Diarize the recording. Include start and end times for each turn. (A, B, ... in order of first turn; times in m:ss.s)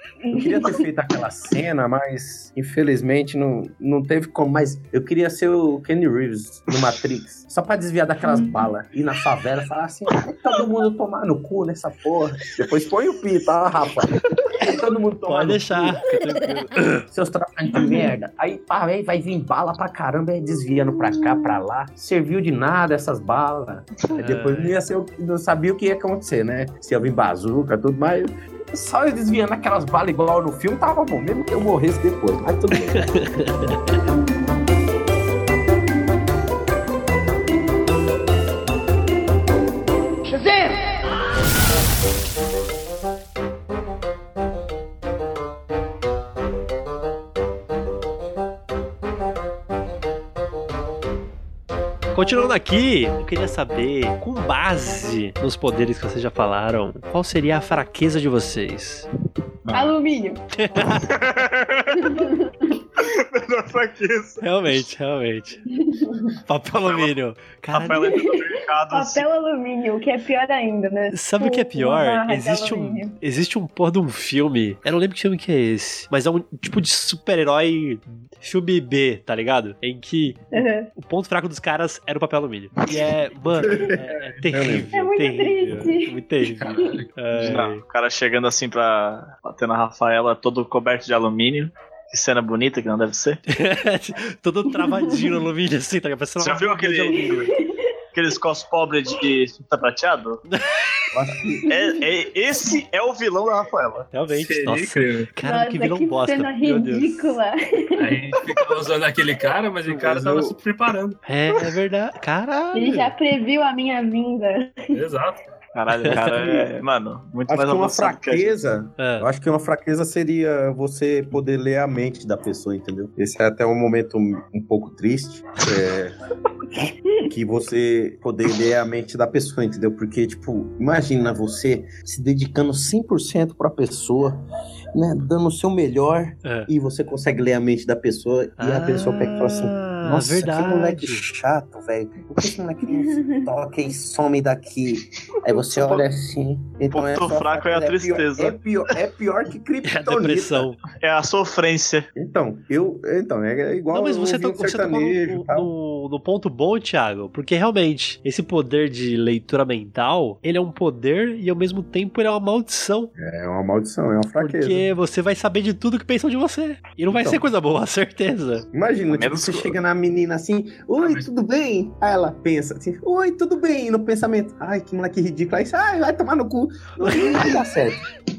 0:00.2-0:00.8 A
0:00.3-0:16.0 B
0:08.3-0:08.7 A
0:15.3-0:17.0 C
0:17.1-0:33.3 B
0:24.1-0:24.8 C
0:32.9-0:34.0 C
0:52.1-0:59.1 C
0:59.7-1:00.9 A
1:00.6-1:01.2 C
1:01.1-1:02.2 D
1:02.0-1:02.7 A
1:03.0-1:04.8 D
1:04.4-1:05.6 C
1:05.8-1:06.3 A
1:06.5-1:08.1 C
1:06.8-1:07.1 D
1:07.7-1:09.2 D
1:07.9-1:13.2 A
1:11.1-1:20.4 C
1:20.5-1:20.9 A
1:21.0-1:27.8 C
1:23.5-1:24.9 B
1:24.9-1:27.0 A
1:26.5-1:27.6 E
1:27.4-1:33.4 D
1:33.5-1:37.6 C
1:34.8-1:35.4 A
1:36.4-1:37.3 D
1:37.2-1:37.8 A
1:38.1-1:40.4 D
1:41.1-1:41.7 B
1:41.7-1:42.0 A
1:41.7-1:44.1 D
1:44.1-1:47.2 C
1:44.3-1:45.3 E
1:45.4-1:48.6 A
1:48.0-1:51.2 E
1:49.9-1:50.6 B
1:51.3-1:53.1 C
1:52.7-1:55.1 A
1:54.9-1:55.4 E
1:55.8-1:58.5 D
1:56.1-1:56.6 B
1:57.5-2:06.2 B
1:59.0-1:59.3 C
2:07.3-2:14.4 B
2:15.0-2:30.7 B
2:16.4-2:16.7 C
2:18.6-2:21.2 C
2:22.9-2:23.5 A
2:25.6-2:26.0 D
2:26.9-2:28.6 D
2:29.8-2:30.8 C
2:31.0-2:32.1 D
2:32.2-2:35.7 B
2:33.9-2:43.1 C
2:43.2-2:44.9 B
2:44.4-2:48.6 C
2:47.1-2:47.4 B
2:48.7-2:58.0 B
2:49.1-2:49.8 D
2:51.0-2:51.2 E